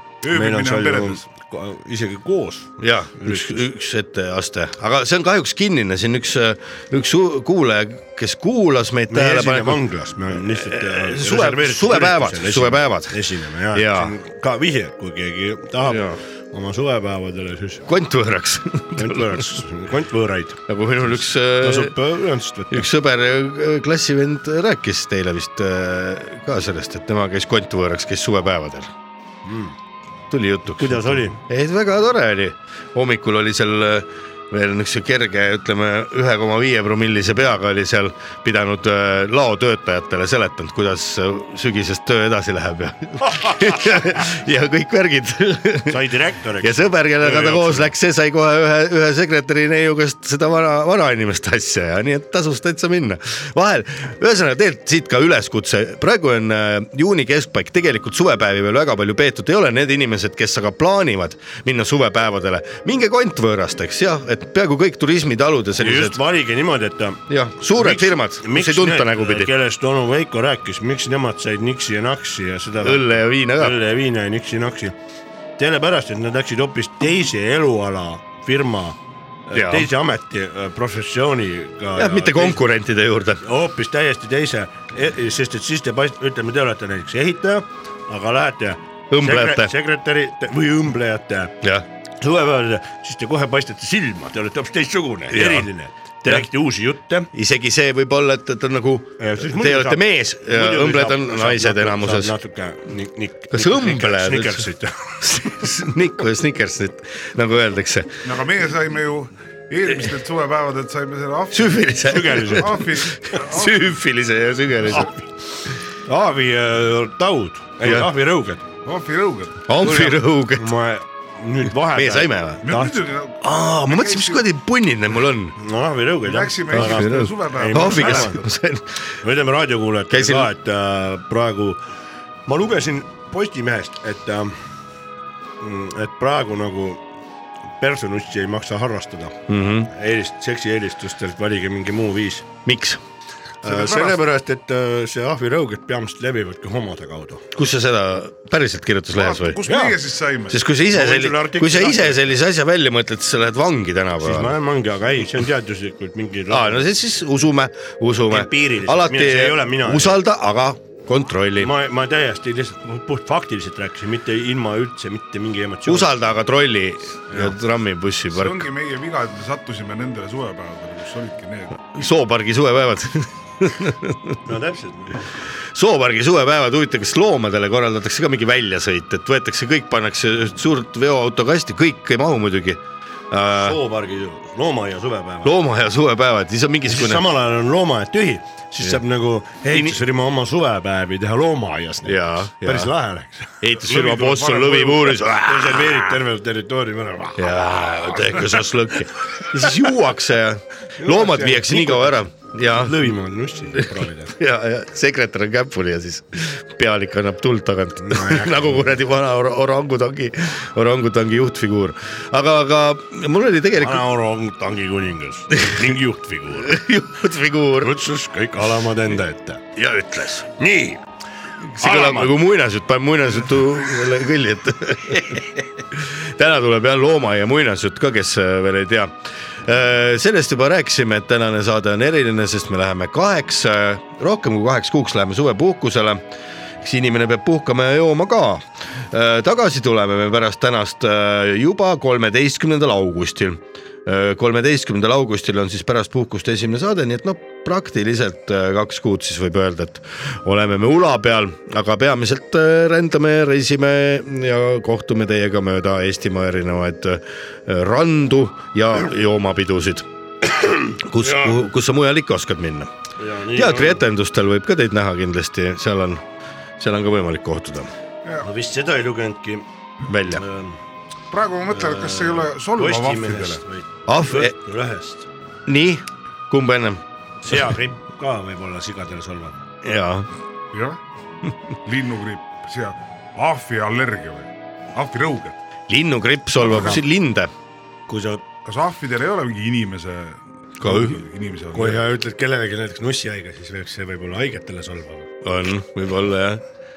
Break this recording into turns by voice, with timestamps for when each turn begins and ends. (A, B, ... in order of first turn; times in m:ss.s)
0:00.2-0:01.2 A
0:00.3-0:03.6 B
0:02.8-0:14.2 C
0:09.1-0:17.8 B
0:15.9-0:16.2 C
0:17.9-0:19.6 C
0:19.0-0:20.6 B
0:20.7-0:22.0 C
0:21.6-0:22.9 B
0:22.7-0:28.9 C
0:29.4-0:29.8 B
0:30.3-0:46.0 C
0:30.8-0:31.4 B
0:45.9-0:47.8 B
0:46.6-1:06.2 C
1:05.8-1:15.0 B
1:07.3-1:09.5 C
1:12.8-1:13.8 C
1:15.6-1:22.6 B
1:19.5-1:19.9 C
1:22.0-1:23.4 C
1:23.4-1:31.6 B
1:29.1-1:29.7 C
1:32.2-1:37.3 B
1:35.3-1:35.7 C
1:37.3-1:42.3 C
1:39.2-1:45.2 B
1:43.5-1:44.7 C
1:45.2-1:48.2 C
1:48.2-1:51.7 A
1:51.5-1:55.2 C
1:52.0-1:52.9 B
1:52.5-1:53.9 A
1:56.0-1:58.7 B
1:57.8-1:58.1 C
1:58.8-1:59.6 A
1:59.7-2:00.8 C
1:59.8-2:03.0 B
2:01.8-2:02.7 C
2:02.6-2:04.4 A
2:03.4-2:05.6 C
2:05.6-2:08.4 B
2:06.2-2:08.4 A
2:06.7-2:09.0 C
2:09.2-2:11.8 B
2:10.1-2:10.5 C
2:12.5-2:14.5 B
2:15.6-2:17.0 B
2:17.8-2:19.4 B
2:19.5-2:19.9 C
2:19.9-2:22.5 B
2:22.6-2:23.0 C
2:23.6-2:27.5 B
2:23.6-2:24.2 A
2:27.5-2:29.6 C
2:29.1-2:30.6 A
2:29.6-2:30.0 B
2:30.5-2:34.6 C
2:30.9-2:32.2 B
2:34.2-2:36.9 B
2:36.5-2:41.7 C
2:38.3-2:40.2 B
2:41.6-2:46.3 B
2:45.9-2:48.7 C
2:47.3-2:47.6 B
2:48.3-2:52.0 A
2:52.0-2:54.4 C
2:54.4-2:55.3 B
2:55.7-3:03.8 C
3:03.6-3:05.6 B
3:05.4-3:07.2 C
3:06.9-3:13.6 B
3:09.7-3:10.0 C
3:12.0-3:12.9 C
3:13.6-3:16.2 C
3:13.8-3:15.2 A
3:15.4-3:18.4 B
3:17.4-3:23.1 C
3:21.0-3:24.3 B
3:23.7-3:34.0 C
3:28.0-3:29.0 B
3:33.8-3:36.8 B
3:36.6-3:38.0 C
3:37.8-3:39.8 B
3:39.8-3:40.4 C
3:40.4-3:41.0 B
3:41.8-3:49.1 C
3:41.8-3:42.4 B
3:49.6-3:56.2 C
3:56.8-4:20.1 C
4:20.9-4:22.9 C
4:21.2-4:21.6 B
4:23.2-4:24.1 B
4:23.5-4:26.2 C
4:26.8-4:27.9 C
4:28.4-4:29.7 B
4:30.1-4:30.4 C
4:30.2-4:30.8 B
4:31.3-4:33.6 A
4:31.7-4:35.3 B
4:34.1-4:34.6 C
4:35.7-4:37.0 C
4:37.4-4:39.6 B
4:39.8-4:40.3 C
4:40.7-4:41.0 A
4:41.8-4:45.6 A
4:45.9-4:47.5 C
4:46.6-4:47.0 B
4:48.1-4:48.4 B
4:48.6-4:52.0 A
4:50.8-4:51.2 C
4:51.7-4:55.3 B
4:55.4-4:56.6 C